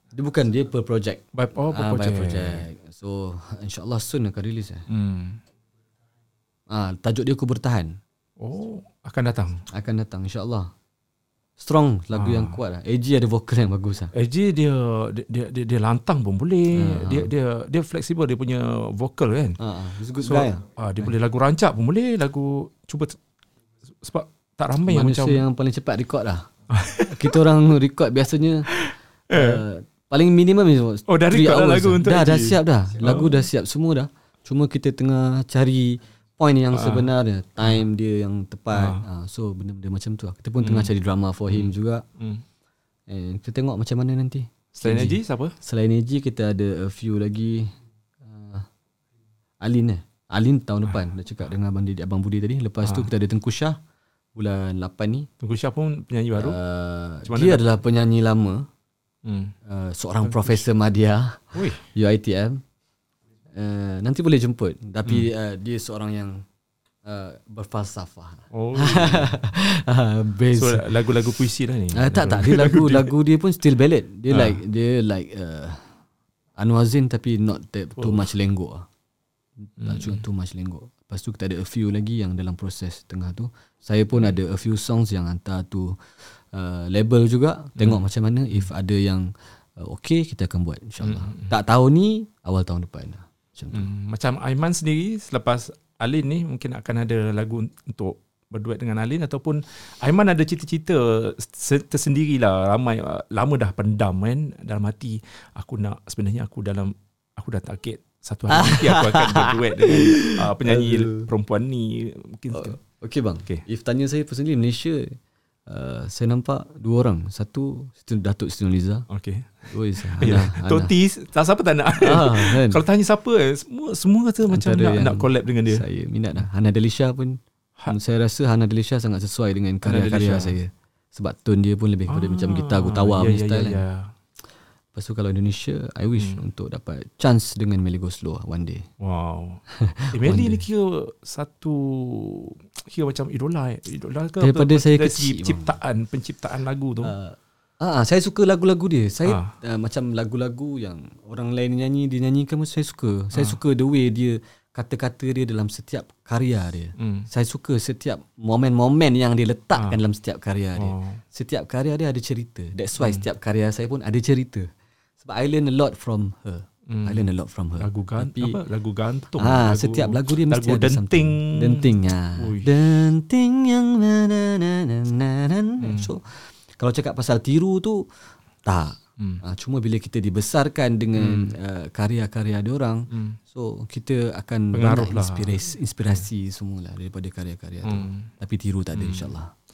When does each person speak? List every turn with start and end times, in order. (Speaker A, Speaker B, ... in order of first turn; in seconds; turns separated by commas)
Speaker A: 0.1-4.8, Speaker B: 1.3-2.6, Speaker B: 4.9-5.4, Speaker A: 6.7-8.0, Speaker B: 8.4-9.6, Speaker A: 9.7-10.7, Speaker A: 11.6-14.1, Speaker B: 12.1-12.6, Speaker B: 14.1-19.6, Speaker A: 16.7-17.3, Speaker A: 19.6-21.1, Speaker B: 20.2-23.2, Speaker B: 24.0-25.4, Speaker A: 24.9-26.5, Speaker B: 26.7-27.4, Speaker A: 27.1-28.7, Speaker B: 28.7-29.6, Speaker A: 29.3-42.0, Speaker B: 31.1-33.4, Speaker B: 36.7-37.1, Speaker B: 38.7-39.0, Speaker B: 40.6-40.9, Speaker B: 41.5-42.4, Speaker A: 43.1-48.7, Speaker B: 44.8-45.5, Speaker A: 49.6-53.8, Speaker A: 54.3-55.3, Speaker B: 55.4-56.6, Speaker A: 56.4-58.7, Speaker B: 57.2-57.6, Speaker B: 59.2-59.5, Speaker A: 59.6-62.6, Speaker B: 60.2-60.6, Speaker B: 61.5-61.8, Speaker A: 63.5-66.5, Speaker A: 67.0-70.9, Speaker B: 68.5-69.3, Speaker B: 70.5-73.1, Speaker A: 71.9-75.9, Speaker B: 74.3-74.6, Speaker A: 76.6-78.9, Speaker B: 78.0-78.3, Speaker A: 79.6-86.0, Speaker B: 79.8-80.2, Speaker A: 86.5-93.9, Speaker B: 91.0-91.5, Speaker B: 93.7-112.8, Speaker A: 108.5-111.3, Speaker A: 112.5-119.1, Speaker B: 119.1-125.8, Speaker A: 119.7-120.9, Speaker A: 122.0-122.8, Speaker A: 124.5-133.8, Speaker B: 129.8-130.6, Speaker B: 132.1-134.1, Speaker A: 134.9-138.9, Speaker B: 136.2-136.4, Speaker B: 139.0-147.1, Speaker A: 139.7-140.6, Speaker A: 144.4-145.7, Speaker A: 147.0-164.7, Speaker B: 149.2-149.5, Speaker B: 153.3-153.6, Speaker B: 157.0-157.3, Speaker B: 159.7-160.0, Speaker B: 160.8-161.2, Speaker B: 163.0-163.2, Speaker A: 165.2-168.6, Speaker B: 166.9-167.2, Speaker B: 167.8-172.7, Speaker A: 169.4-178.1, Speaker B: 175.8-176.1, Speaker A: 178.6-189.5, Speaker B: 181.2-181.5, Speaker B: 183.1-183.4, Speaker B: 184.7-185.7, Speaker B: 187.8-188.3, Speaker B: 188.9-189.3